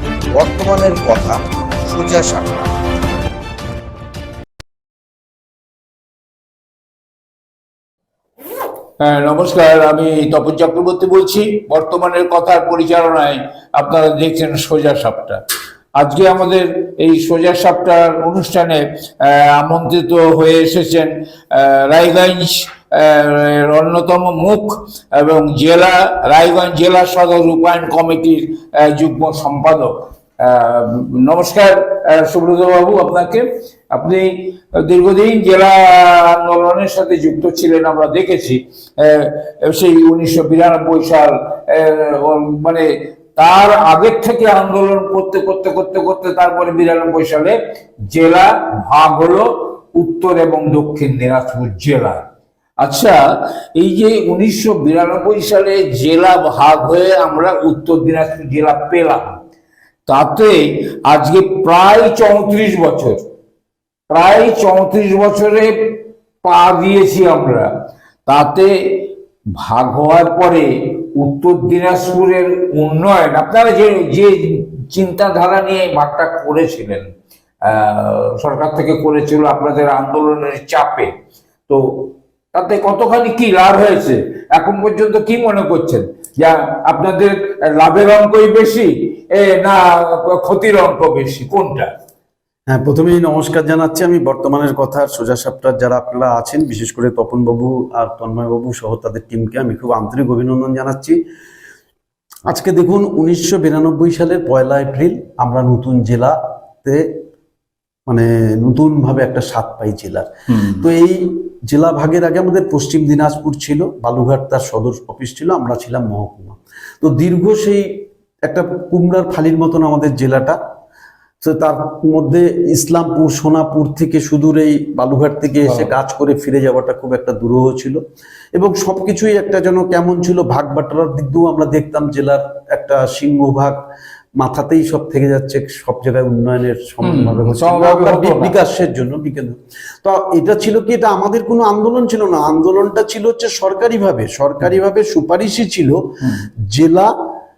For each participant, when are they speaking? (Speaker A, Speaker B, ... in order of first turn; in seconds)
Speaker A: 0.4-2.7
Speaker B: 9.0-15.4, 16.0-42.9, 43.4-47.6, 48.1-52.2, 52.8-53.2, 53.8-59.3, 60.1-60.6, 61.1-63.2, 64.1-65.7, 66.4-67.7, 68.3-77.1, 77.7-81.1, 81.7-91.9, 110.5-110.8, 125.7-125.9, 137.0-138.5
Speaker C: 92.7-101.2, 102.5-107.1, 108.1-117.9, 118.5-120.6, 121.4-128.0, 128.6-133.8, 134.4-146.2, 146.7-147.1